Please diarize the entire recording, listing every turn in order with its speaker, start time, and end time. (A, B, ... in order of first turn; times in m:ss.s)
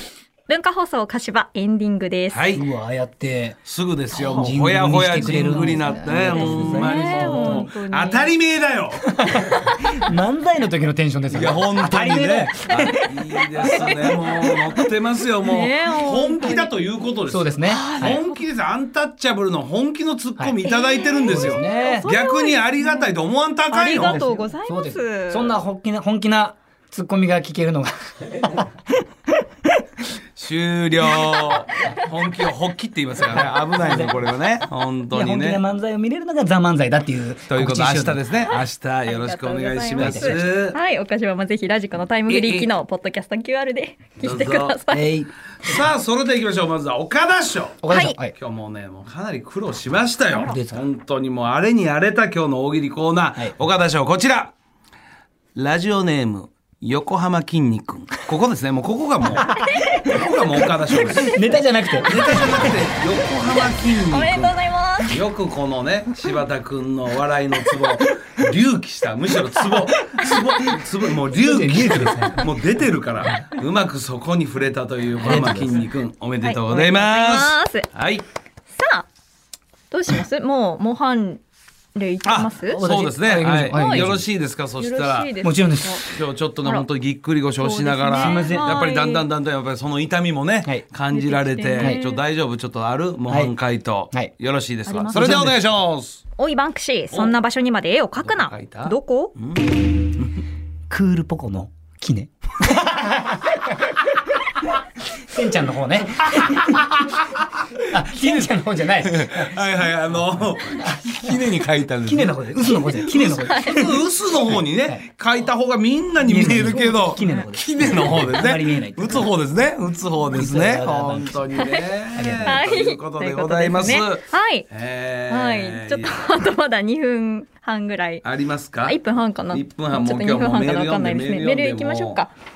0:00.5-0:02.5 A
0:02.3-0:02.6 B
0:02.5-0:03.6 C
0:03.6-0:09.5 B
0:04.2-0:04.5 A
0:04.2-0:07.7 C
0:06.0-0:08.3 A
0:09.0-0:14.2 C
0:11.3-0:24.2 B
0:12.7-0:13.0 A
0:13.6-0:14.8 A
0:15.4-0:16.7 A
0:17.3-0:18.2 C
0:17.7-0:18.4 A
0:20.6-0:23.1 A
0:21.2-0:22.1 C
0:23.7-0:25.5 A
0:24.0-0:28.7 C
0:29.3-0:29.8 C
0:30.4-0:35.6 B
0:33.3-0:34.2 C
0:35.1-0:38.2 C
0:37.5-0:40.8 B
0:38.5-0:45.1 A
0:40.0-0:40.5 C
0:42.3-0:42.7 B
0:44.2-0:44.8 B
0:44.9-0:45.8 C
0:45.6-0:54.5 B
0:47.8-0:48.3 C
0:47.9-0:48.2 A
0:50.3-0:50.8 C
0:55.5-1:01.4 B
0:59.4-0:59.8 C
1:01.0-1:02.7 C
1:02.0-1:18.2 B
1:03.9-1:05.2 A
1:10.1-1:10.8 C
1:11.3-1:12.5 C
1:15.2-1:15.8 C
1:16.4-1:17.9 A
1:18.7-1:19.1 A
1:19.9-1:21.4 A
1:21.9-1:22.8 A
1:22.2-1:25.3 B
1:22.7-1:24.3 C
1:23.7-1:24.0 A
1:24.8-1:26.0 A
1:25.4-1:26.1 C
1:26.1-1:36.2 B
1:27.6-1:29.2 A
1:28.1-1:28.8 C
1:31.1-1:32.2 A
1:33.3-1:33.5 C
1:34.9-1:35.4 A
1:35.0-1:35.6 C
1:36.4-1:39.3 A
1:37.1-1:37.4 B
1:38.2-1:40.3 B
1:40.9-1:43.7 C
1:45.3-1:47.0 C
1:47.9-1:49.5 C
1:48.2-1:48.5 B
1:49.0-2:06.2 B
1:52.0-1:55.0 C
1:53.4-1:53.8 A
1:56.2-1:59.3 C
1:57.2-1:57.5 A
2:00.3-2:01.6 C
2:02.1-2:02.7 C
2:02.4-2:04.7 A
2:05.3-2:08.2 A
2:08.2-2:12.2 B
2:08.8-2:12.3 A